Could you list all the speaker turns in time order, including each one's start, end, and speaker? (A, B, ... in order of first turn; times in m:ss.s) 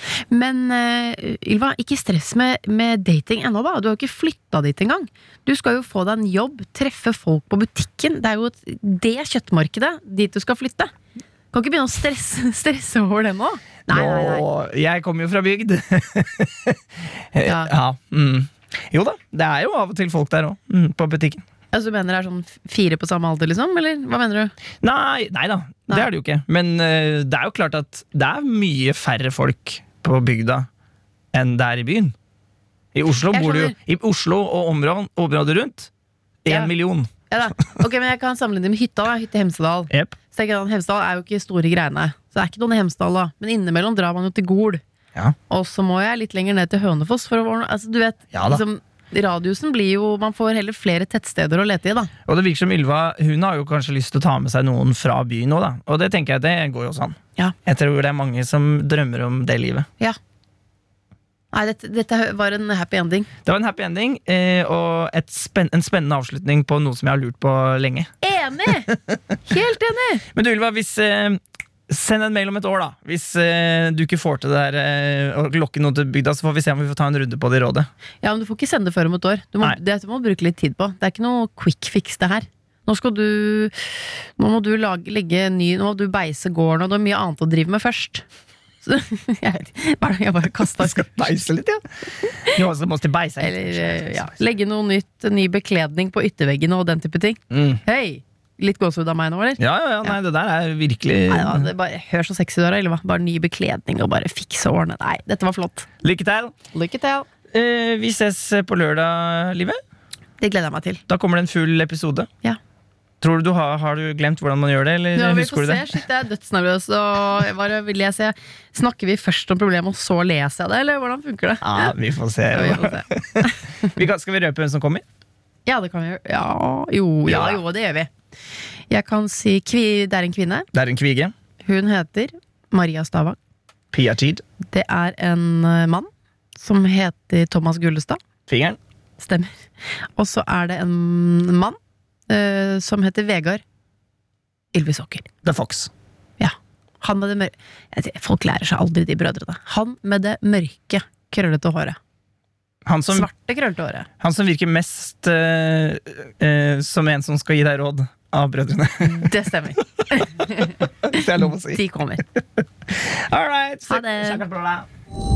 0:00.3-0:10.9 A
0:11.5-0:14.4 A
0:13.9-0:16.8 B
0:17.4-0:21.4 B
0:17.4-0:17.7 A
0:21.7-0:24.5 A
0:24.8-0:30.7 B
0:31.3-0:32.1 B
0:33.0-0:35.9 B
0:33.3-0:33.7 A
0:36.4-0:37.1 B
0:36.5-0:36.7 A
0:37.3-0:44.8 A
0:39.9-0:40.2 B
0:45.5-0:52.1 A
0:48.3-0:48.6 B
0:52.3-0:59.9 B
1:01.5-1:03.3 A
1:03.4-1:08.1 B
1:08.2-1:08.9 A
1:09.5-1:10.2 A
1:10.3-1:17.9 B
1:18.2-1:23.8 A
1:24.4-1:28.2 A
1:28.8-1:31.1 A
1:30.8-1:34.3 B
1:33.4-1:40.1 A
1:37.5-1:37.8 B
1:39.6-1:41.7 B
1:41.3-1:45.9 A
1:46.0-1:46.5 B
1:46.7-1:47.3 A
1:47.5-1:49.8 B
1:50.4-1:51.0 A
1:51.1-1:52.3 B
1:53.2-1:55.9 B
1:55.2-2:01.9 A
2:01.6-2:05.0 B
2:02.5-2:03.5 A
2:05.7-2:08.1 A
2:07.3-2:07.6 B
2:08.9-2:10.7 A
2:10.7-2:11.3 B
2:11.6-2:13.4 A
2:13.9-2:14.4 B
2:14.7-2:18.2 A
2:18.5-2:18.8 B
2:19.2-2:19.5 A
2:20.2-2:21.8 A
2:22.3-2:23.6 A
2:24.7-2:25.3 A
2:25.4-2:25.9 B
2:26.4-2:32.0 A
2:32.9-2:33.3 B
2:33.1-2:34.1 A
2:34.2-2:39.3 B
2:39.0-2:42.3 A
2:41.0-2:41.8 B
2:42.9-2:44.9 B
2:43.9-2:44.4 A